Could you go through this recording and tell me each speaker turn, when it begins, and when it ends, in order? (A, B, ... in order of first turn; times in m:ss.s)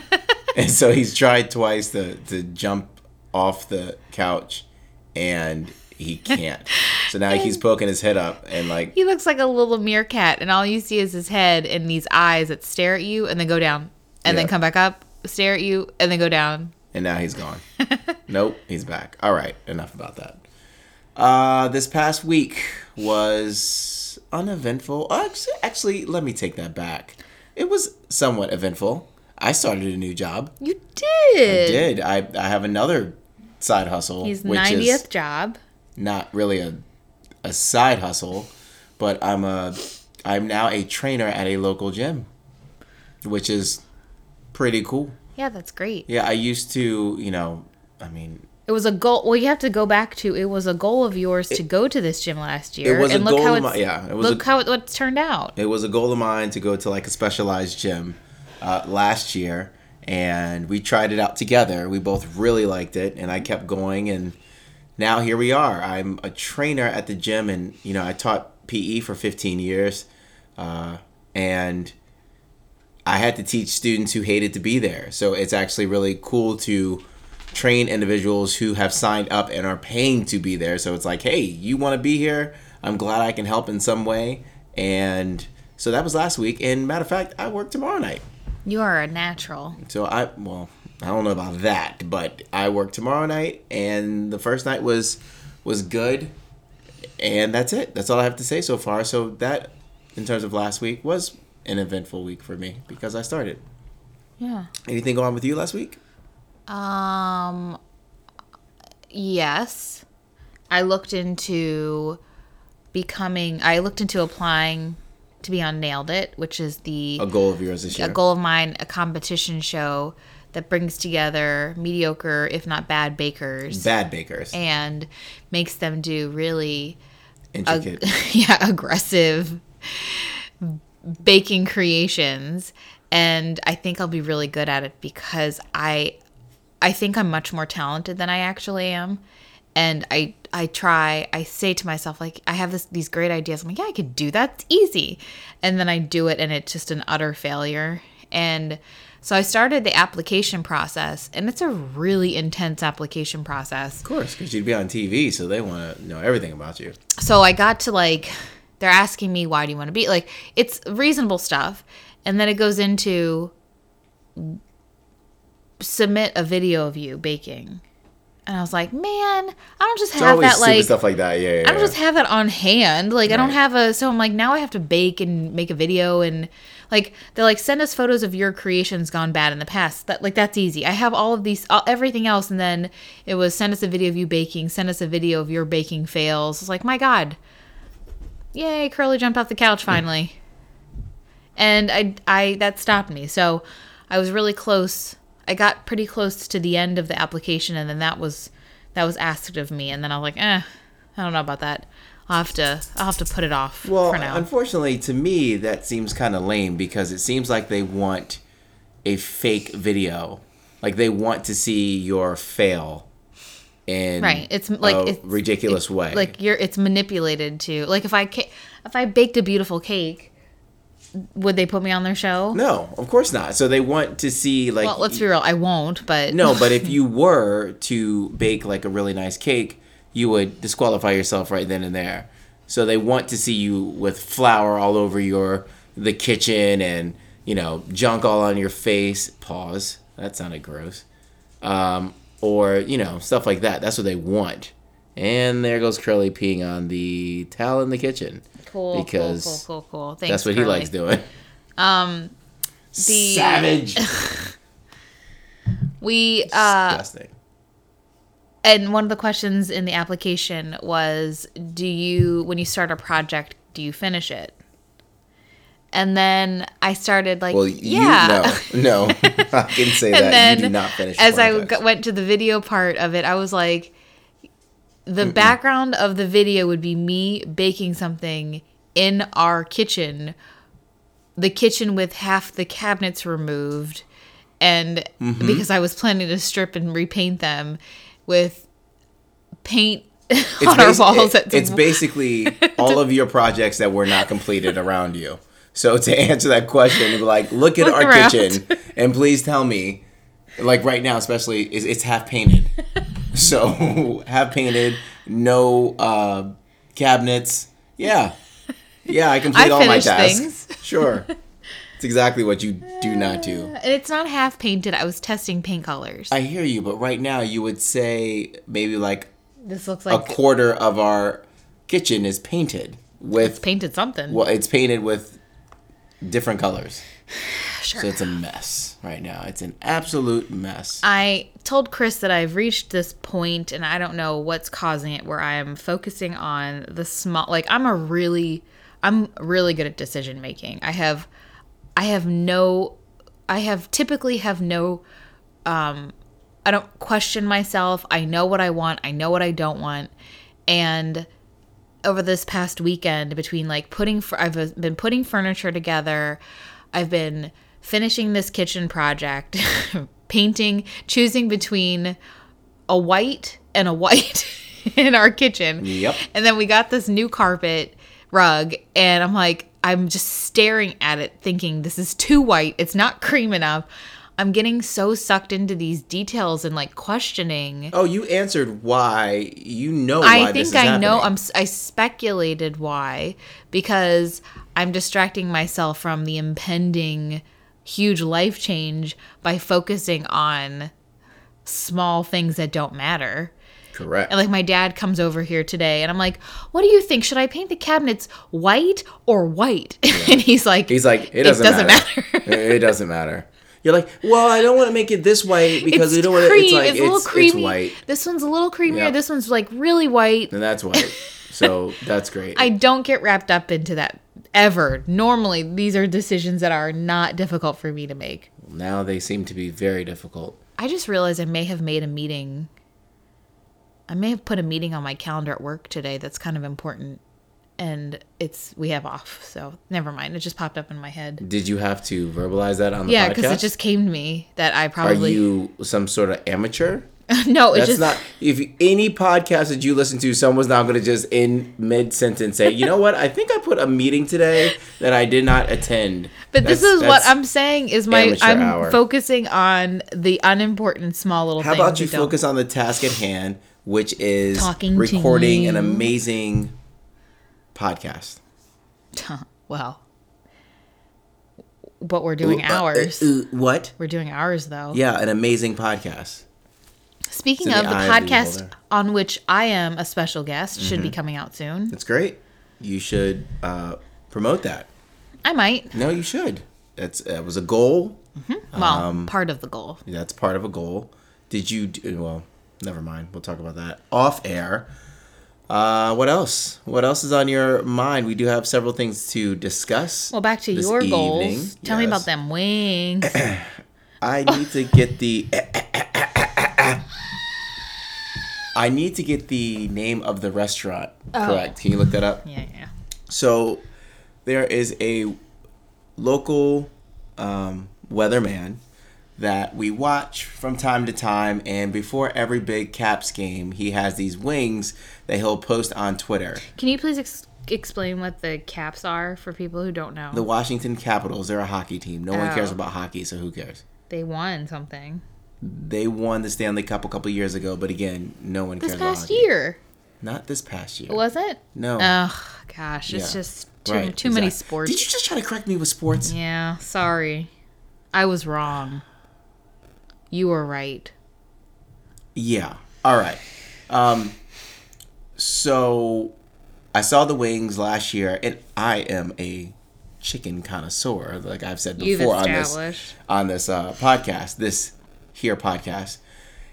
0:00.5-0:08.9 A
0:07.3-0:07.6 B
0:08.9-0:16.7 B
0:14.2-0:14.5 A
0:16.9-0:17.6 A
0:18.3-0:20.4 A
0:21.2-0:30.5 A
0:30.6-0:31.8 B
0:31.5-0:35.0 A
0:34.2-0:35.6 B
0:36.0-0:36.8 A
0:37.4-0:42.3 A
0:43.2-0:43.8 A
0:44.5-0:45.2 A
0:45.4-0:46.1 B
0:46.1-0:48.4 A
0:48.7-0:55.5 B
0:52.8-0:54.4 A
0:55.6-1:04.4 A
1:05.0-1:11.9 A
1:13.0-1:28.2 A
1:28.6-1:29.8 B
1:29.8-1:36.3 A
1:37.2-1:43.6 A
1:44.4-1:44.7 B
1:44.8-1:46.0 A
1:46.7-1:47.8 B
1:49.1-1:50.0 B
1:50.7-1:52.2 B
1:52.9-1:57.2 B
1:57.2-1:58.2 A
1:57.9-2:03.9 B
2:03.7-2:04.6 A
2:04.5-2:07.0 B
2:07.5-2:08.0 A
2:07.7-2:16.1 B
2:16.8-2:19.2 B
2:19.7-2:34.0 B
2:34.0-2:37.0 A
2:37.2-2:43.5 B
2:45.8-2:47.8 B
2:48.5-2:50.9 B
2:50.1-2:51.9 A
2:51.6-3:07.4 B
2:53.3-2:53.6 A
3:08.5-3:10.3 B
3:11.6-3:24.5 B
3:23.8-3:28.4 A
3:29.0-3:33.1 A
3:33.9-3:36.3 A
3:34.2-3:40.3 B
3:41.2-3:42.6 B
3:42.5-3:45.2 A
3:44.8-3:46.9 B
3:46.3-4:01.0 A
4:01.6-4:09.6 A
4:08.6-4:10.9 B
4:10.3-4:11.3 A
4:11.8-4:12.3 B
4:12.9-4:14.0 A
4:13.0-4:14.5 B
4:16.0-4:17.0 B
4:16.5-4:17.3 A
4:18.6-4:24.6 B
4:25.9-4:33.9 B
4:27.5-4:31.8 A
4:35.0-4:40.4 B
4:35.2-4:35.5 A
4:41.4-4:44.0 B
4:44.6-4:48.6 B
4:45.2-4:45.6 A
4:49.6-4:53.0 B
4:50.6-5:00.0 A
4:57.8-4:58.6 B
5:00.6-5:02.8 A
5:03.3-5:08.3 A
5:09.0-5:11.3 A
5:09.5-5:11.1 B
5:12.0-5:13.7 A
5:13.0-5:16.3 B
5:16.3-5:19.3 A
5:19.6-5:20.4 B
5:20.1-5:23.6 A
5:23.4-5:24.4 B
5:24.3-5:25.4 A
5:26.2-5:27.0 A
5:27.5-5:28.3 B
5:28.0-5:31.0 A
5:31.0-5:41.3 B
5:42.0-5:45.0 B
5:45.6-5:46.1 B
5:46.6-5:50.1 B
5:50.7-5:51.3 B
5:52.0-5:56.4 B
5:56.9-6:02.2 B
6:02.9-6:13.9 B
6:05.8-6:06.2 A
6:14.4-6:17.9 B
6:17.9-6:21.3 A
6:20.2-6:30.9 B
6:31.6-6:33.5 B
6:33.9-6:34.3 A
6:34.3-6:42.9 B
6:40.1-6:48.0 A
6:45.7-6:51.1 B
6:48.9-6:49.1 A
6:50.5-6:52.7 A
6:52.5-6:58.5 B
6:58.6-7:00.6 A
7:00.8-7:02.7 B
7:04.1-7:07.2 B
7:07.8-7:11.4 B
7:11.4-7:13.6 A
7:13.0-7:15.4 B
7:15.0-7:17.0 A
7:17.3-7:18.2 B
7:17.7-7:27.3 A
7:26.5-7:32.4 B
7:28.1-7:29.0 A
7:31.6-7:36.7 A
7:34.5-7:36.1 B
7:37.7-7:38.4 A
7:39.1-7:40.0 B
7:42.0-7:43.3 B
7:42.4-7:43.9 A
7:44.0-7:45.0 B
7:44.9-7:46.4 A
7:47.3-7:51.9 B
7:47.6-7:48.7 A
7:50.8-7:51.1 A
7:51.9-7:54.9 A
7:55.4-7:55.9 B
7:55.9-7:58.2 A
7:58.4-8:00.0 B
7:58.7-7:59.3 A
8:00.0-8:04.9 A
8:05.7-8:12.2 A
8:10.3-8:13.4 B
8:13.2-8:17.0 A
8:18.7-8:22.4 A
8:21.3-8:21.7 B
8:22.4-8:22.9 B
8:23.3-8:23.8 A
8:24.4-8:25.4 A
8:26.2-8:28.8 A
8:29.4-8:36.6 A
8:36.6-8:40.5 B
8:40.3-8:43.8 A
8:42.3-8:42.8 B
8:44.1-8:45.2 B
8:45.6-8:49.5 A
8:48.8-8:49.8 B
8:50.2-8:51.2 A
8:51.1-8:55.0 B
8:51.7-8:52.2 A
8:53.1-8:56.3 A
8:56.2-8:57.5 B
8:58.1-8:59.0 B
9:00.3-9:01.1 B
9:02.3-9:04.4 A
9:05.4-9:06.3 A
9:06.9-9:16.2 A
9:12.0-9:13.1 B